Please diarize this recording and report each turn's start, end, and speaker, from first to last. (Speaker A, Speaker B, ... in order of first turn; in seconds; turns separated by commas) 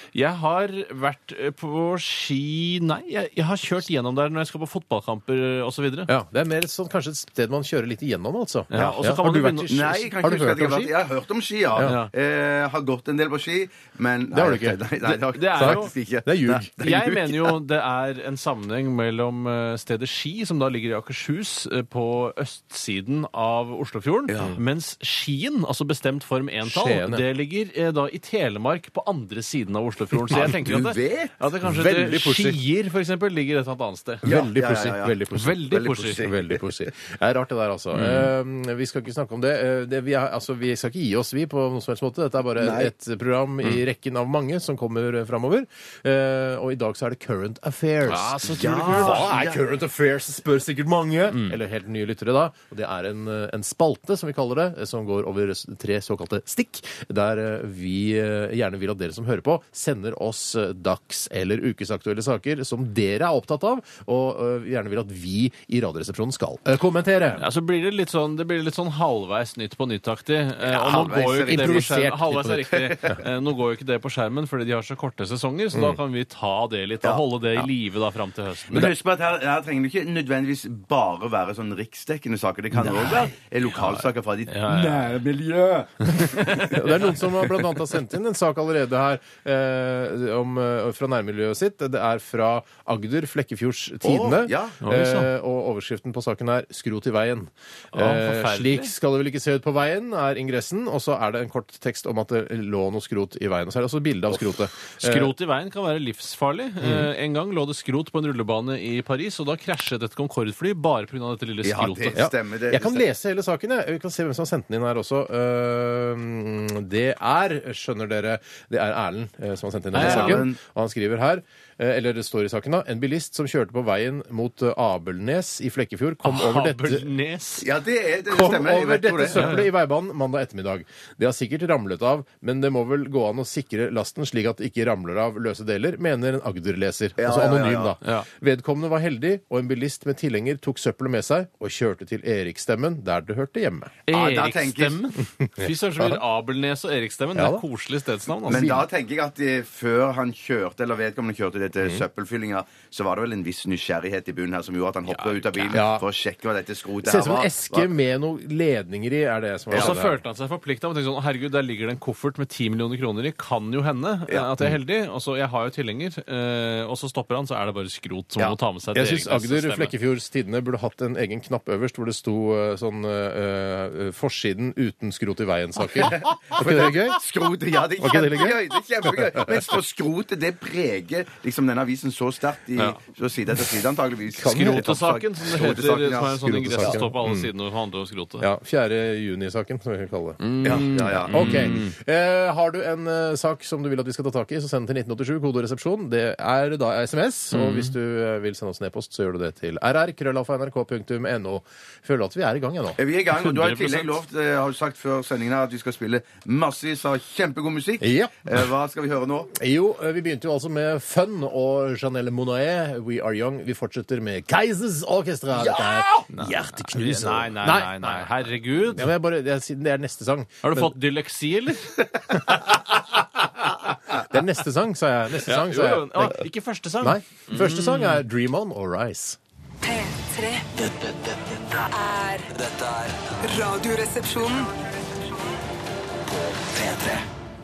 Speaker A: 0.1-6.1, Speaker B: 6.1-10.9, Speaker A: 8.7-9.9, Speaker C: 8.8-9.1, Speaker C: 9.7-17.5, Speaker A: 11.8-12.1, Speaker B: 14.3-16.9, Speaker A: 15.3-15.9, Speaker A: 16.8-34.2, Speaker C: 24.3-24.6, Speaker B: 26.6-27.2, Speaker C: 30.3-31.3, Speaker B: 31.6-32.6, Speaker B: 34.2-67.5, Speaker C: 34.2-36.6, Speaker A: 35.4-36.3, Speaker A: 37.9-38.3, Speaker C: 42.6-42.9, Speaker A: 48.1-49.3, Speaker C: 48.4-49.6, Speaker A: 51.3-51.6, Speaker A: 67.4-78.9, Speaker C: 70.6-72.0, Speaker B: 71.4-72.8, Speaker C: 72.7-73.2, Speaker B: 75.7-76.0, Speaker C: 77.0-77.7, Speaker C: 78.7-86.8, Speaker A: 83.6-85.2, Speaker A: 86.0-87.2, Speaker B: 86.6-105.3, Speaker C: 94.0-94.8, Speaker A: 94.8-95.3, Speaker A: 97.9-98.9, Speaker A: 105.0-112.2, Speaker B: 106.8-107.1, Speaker C: 111.6-113.0, Speaker B: 112.2-127.1, Speaker A: 119.9-120.5, Speaker C: 119.9-120.6, Speaker A: 126.2-127.7, Speaker C: 127.6-129.6, Speaker B: 128.3-144.0, Speaker A: 129.3-129.7, Speaker C: 137.2-138.0, Speaker A: 138.0-138.3, Speaker A: 144.1-148.7, Speaker C: 144.1-145.0, Speaker B: 145.4-146.2, Speaker B: 147.3-147.6, Speaker C: 148.5-157.9, Speaker B: 148.5-148.9, Speaker B: 151.8-152.1, Speaker A: 155.1-155.8, Speaker B: 155.7-156.1, Speaker B: 157.0-160.2, Speaker C: 159.7-160.0, Speaker A: 159.7-169.9, Speaker B: 168.9-177.2, Speaker C: 176.0-187.0, Speaker B: 178.0-179.6, Speaker B: 184.4-184.9, Speaker A: 184.4-188.5, Speaker B: 186.4-187.5, Speaker B: 188.4-203.0, Speaker A: 190.4-191.9, Speaker C: 190.6-191.7, Speaker A: 197.5-197.9, Speaker C: 203.0-209.5, Speaker A: 203.4-204.2, Speaker B: 208.0-208.6, Speaker B: 209.5-221.0, Speaker C: 215.6-216.2, Speaker A: 216.3-219.1, Speaker A: 220.6-223.0, Speaker B: 222.3-223.2, Speaker B: 224.1-226.4, Speaker A: 225.4-228.2, Speaker B: 227.0-229.4, Speaker D: 229.8-230.7, Speaker E: 230.7-233.5, Speaker D: 232.0-232.5, Speaker D: 233.4-234.9, Speaker E: 236.2-237.2